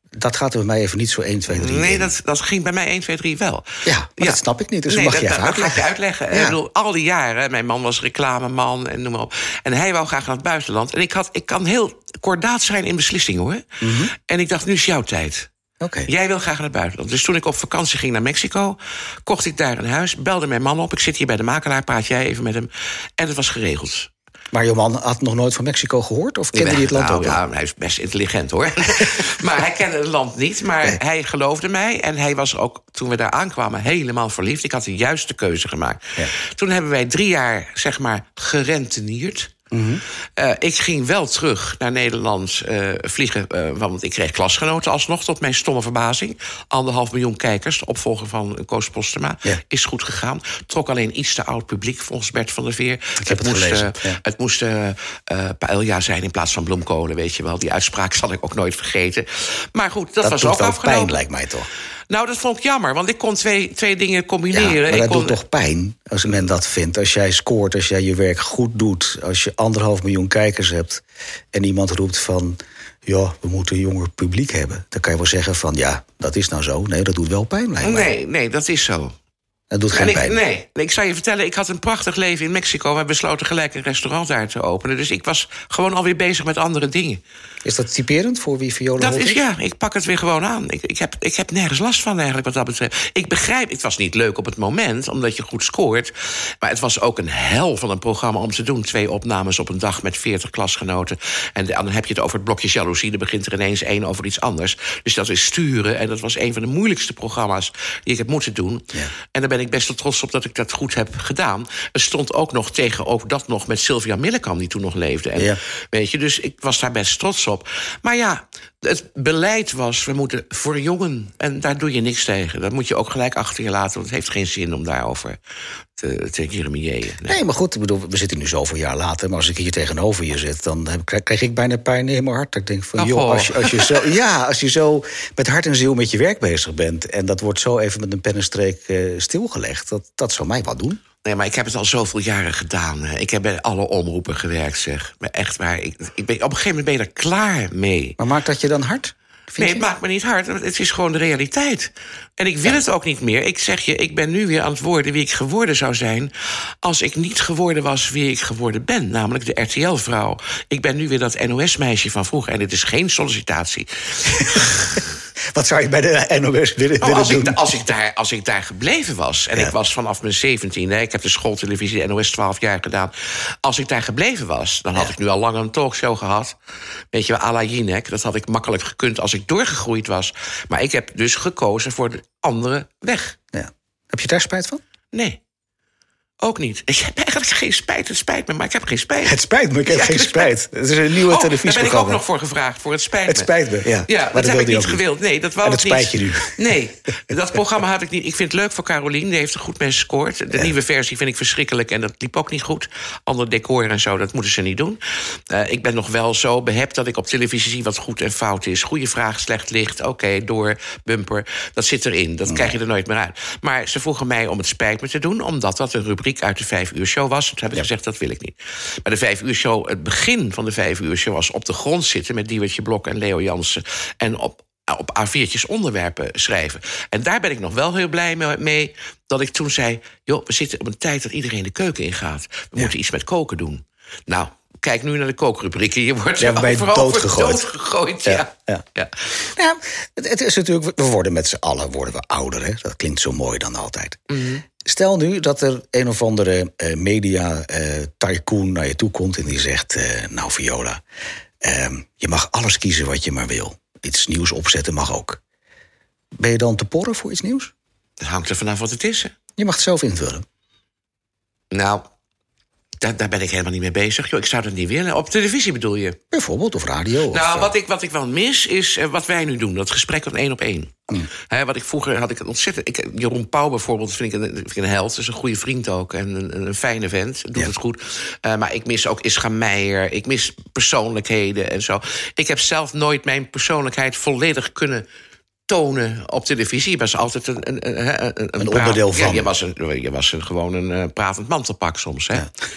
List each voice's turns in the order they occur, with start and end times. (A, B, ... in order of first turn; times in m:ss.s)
0:00.2-0:02.1 A
0:01.5-0:15.5 B
0:03.8-0:06.6 A
0:13.8-0:14.1 A
0:15.8-0:16.1 A
0:16.1-0:24.1 B
0:24.5-0:27.4 A
0:26.5-0:39.6 B
0:39.7-0:40.0 A
0:40.4-1:01.2 B
0:53.2-0:54.2 A
1:00.2-1:01.7 A
1:02.1-1:05.4 B
1:04.5-1:18.1 A
1:17.8-1:19.2 B
1:19.7-1:20.4 A
1:19.9-1:27.2 B
1:27.6-1:29.4 A
1:29.0-2:05.4 B
2:06.0-2:07.4 B
2:07.3-2:21.0 A
2:13.0-2:14.0 B
2:21.2-2:28.2 B
2:28.2-2:29.8 A
2:29.6-2:45.1 B
2:45.5-2:47.6 A
2:47.0-2:56.6 B
2:57.1-3:03.4 B
3:03.5-3:04.8 A
3:05.1-3:05.4 B
3:06.4-3:10.5 B
3:09.2-3:12.2 A
3:11.1-3:13.5 B
3:13.3-3:15.0 A
3:14.1-3:59.5 B
3:15.6-3:16.8 A
3:32.5-3:32.7 A
3:56.4-3:57.6 A
3:58.3-3:58.8 A
3:59.4-4:04.2 A
4:04.3-4:04.6 B
4:04.8-4:11.0 A
4:11.6-4:15.4 A
4:16.4-4:17.7 A
4:18.2-4:19.3 B
4:19.6-4:20.4 A
4:21.7-4:22.0 B
4:23.0-4:26.2 B
4:26.3-4:27.7 A
4:27.3-4:45.1 B
4:45.7-4:52.5 B
4:48.6-4:49.5 A